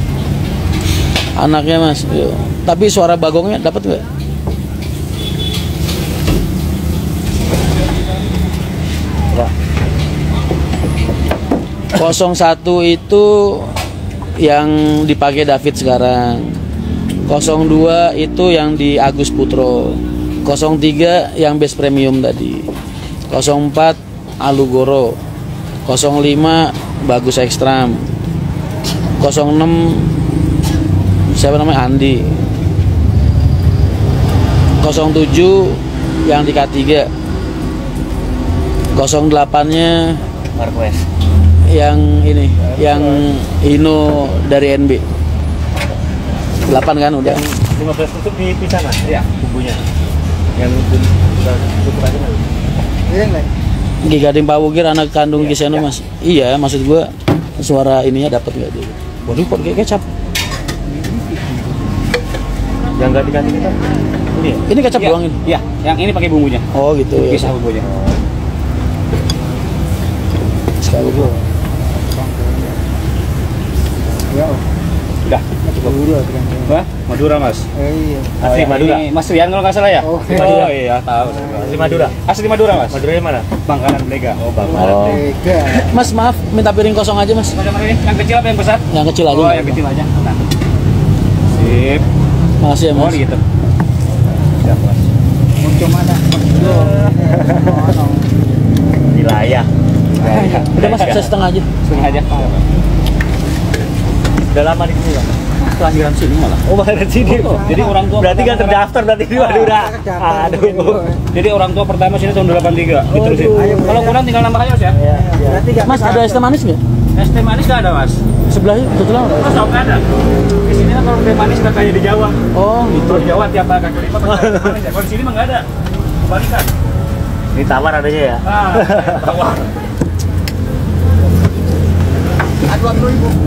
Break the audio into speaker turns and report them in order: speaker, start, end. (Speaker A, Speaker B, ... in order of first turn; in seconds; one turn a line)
Speaker A: 1.4-4.0
Speaker A: 11.9-13.7
Speaker A: 14.4-16.5
Speaker A: 17.2-22.7
Speaker A: 23.3-25.2
Speaker A: 25.9-28.1
Speaker A: 29.2-30.1
Speaker A: 31.3-32.3
Speaker A: 34.8-37.1
Speaker A: 38.9-40.2
Speaker B: 40.5-41.0
Speaker A: 41.7-45.0
Speaker B: 42.7-43.2
Speaker A: 46.6-47.4
Speaker B: 47.2-49.8
Speaker B: 50.5-52.4
Speaker C: 53.1-53.5
Speaker A: 54.0-60.0
Speaker B: 55.5-55.8
Speaker B: 63.0-64.6
Speaker A: 64.7-65.4
Speaker D: 64.9-66.6
Speaker A: 66.7-67.5
Speaker D: 67.2-67.9
Speaker A: 70.8-71.3
Speaker C: 74.3-74.6
Speaker C: 75.7-76.7
Speaker D: 76.7-77.6
Speaker C: 77.8-78.3
Speaker B: 78.4-79.0
Speaker D: 78.4-83.0
Speaker C: 80.0-80.4
Speaker A: 80.3-80.7
Speaker B: 81.5-82.2
Speaker B: 82.9-83.5
Speaker D: 83.6-85.2
Speaker B: 84.5-85.2
Speaker A: 84.8-87.5
Speaker C: 84.9-85.8
Speaker D: 87.5-90.4
Speaker A: 88.9-89.8
Speaker D: 91.5-92.0
Speaker A: 92.6-93.2
Speaker D: 92.9-93.4
Speaker D: 94.5-95.1
Speaker C: 95.6-98.2
Speaker B: 96.7-97.6
Speaker B: 99.1-99.7
Speaker B: 100.2-101.3
Speaker C: 100.2-100.7
Speaker D: 100.3-101.2
Speaker A: 100.7-101.7
Speaker D: 101.8-102.6
Speaker B: 104.5-105.3
Speaker D: 105.8-106.6
Speaker A: 106.0-106.3
Speaker B: 106.6-111.1
Speaker D: 107.2-108.9
Speaker C: 109.4-111.2
Speaker D: 111.3-115.0
Speaker A: 113.1-114.0
Speaker C: 113.5-114.1
Speaker B: 114.9-115.7
Speaker C: 115.1-116.4
Speaker A: 115.8-116.8
Speaker D: 117.1-118.2
Speaker A: 118.5-119.6
Speaker D: 119.3-120.0
Speaker D: 120.6-125.7
Speaker A: 122.5-123.3
Speaker B: 124.4-124.7
Speaker D: 126.2-126.7
Speaker B: 127.5-129.1
Speaker D: 128.4-129.7